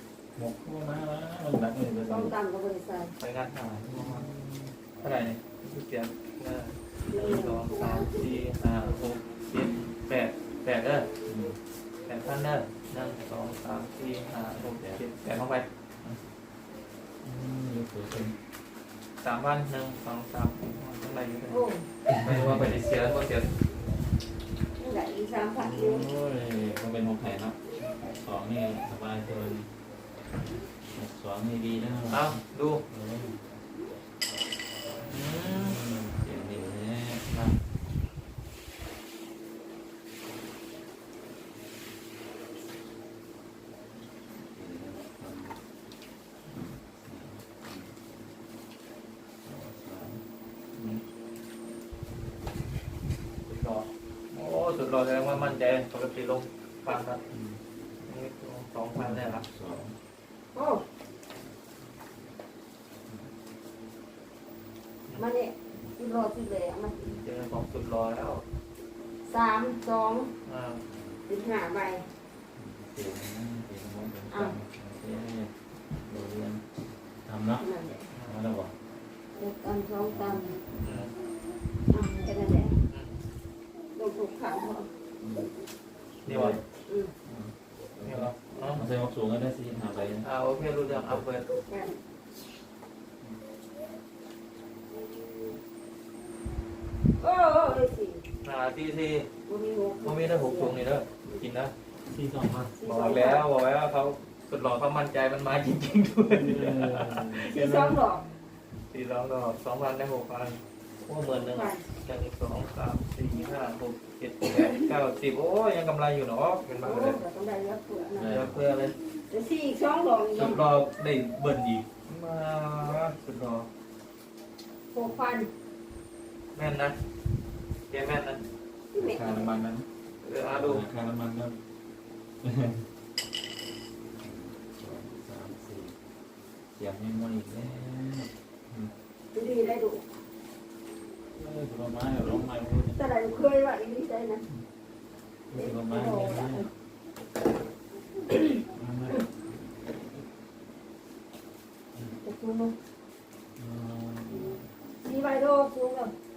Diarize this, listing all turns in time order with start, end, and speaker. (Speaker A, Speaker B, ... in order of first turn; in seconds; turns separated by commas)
Speaker A: 0.3-2.3, Speaker B: 2.0-3.1, Speaker C: 3.2-4.2, Speaker A: 3.9-4.8, Speaker C: 5.0-11.1, Speaker B: 7.1-8.1, Speaker A: 11.2-11.6, Speaker C: 12.1-15.7, Speaker A: 14.6-15.0, Speaker A: 17.2-18.4, Speaker C: 19.2-21.6, Speaker B: 21.5-21.9, Speaker A: 22.1-22.8, Speaker C: 22.2-23.5, Speaker B: 24.8-26.1, Speaker A: 25.6-29.7, Speaker A: 30.9-33.4, Speaker C: 32.1-32.8, Speaker A: 34.9-37.6, Speaker C: 35.0-35.8, Speaker A: 44.3-45.6, Speaker A: 46.5-47.9, Speaker A: 49.4-50.2, Speaker A: 50.7-51.0, Speaker C: 53.5-57.2, Speaker A: 55.3-55.6, Speaker A: 57.3-57.6, Speaker C: 58.0-59.4, Speaker A: 59.0-60.0, Speaker B: 60.5-60.8, Speaker B: 65.2-67.0, Speaker C: 67.0-68.4, Speaker B: 69.2-70.3, Speaker C: 70.5-70.8, Speaker A: 70.9-71.2, Speaker B: 71.3-72.1, Speaker A: 72.6-76.6, Speaker B: 74.3-74.6, Speaker A: 77.2-77.7, Speaker B: 77.6-78.1, Speaker C: 78.1-78.4, Speaker A: 78.2-78.7, Speaker B: 79.4-80.6, Speaker A: 80.0-81.1, Speaker C: 80.8-81.1, Speaker B: 81.9-82.8, Speaker C: 82.9-83.1, Speaker B: 83.9-84.9, Speaker A: 85.2-85.5, Speaker A: 86.2-86.6, Speaker C: 86.2-86.6, Speaker A: 87.2-90.3, Speaker C: 88.0-88.8, Speaker C: 90.2-91.5, Speaker A: 90.9-91.2, Speaker B: 91.6-92.0, Speaker B: 97.2-98.2, Speaker C: 98.4-99.3, Speaker B: 99.5-101.4, Speaker C: 100.0-101.7, Speaker A: 102.1-102.7, Speaker B: 102.8-103.5, Speaker C: 102.8-108.0, Speaker A: 106.3-107.8, Speaker B: 107.5-108.2, Speaker C: 108.9-117.2, Speaker B: 111.3-111.8, Speaker B: 116.8-118.4, Speaker A: 118.1-118.6, Speaker C: 118.2-119.0, Speaker B: 119.3-120.6, Speaker C: 120.3-123.7, Speaker B: 124.9-125.5, Speaker C: 126.5-127.0, Speaker C: 127.9-128.4, Speaker B: 128.9-129.5, Speaker A: 128.9-129.9, Speaker C: 130.2-130.9, Speaker A: 130.5-131.6, Speaker A: 132.4-132.8, Speaker A: 134.2-135.9, Speaker A: 136.7-138.9, Speaker B: 139.3-140.0, Speaker A: 141.3-143.5, Speaker B: 142.9-144.4, Speaker A: 145.5-146.7, Speaker B: 145.5-146.7, Speaker A: 148.5-150.2, Speaker B: 152.2-152.8, Speaker A: 153.6-154.7, Speaker B: 155.0-156.1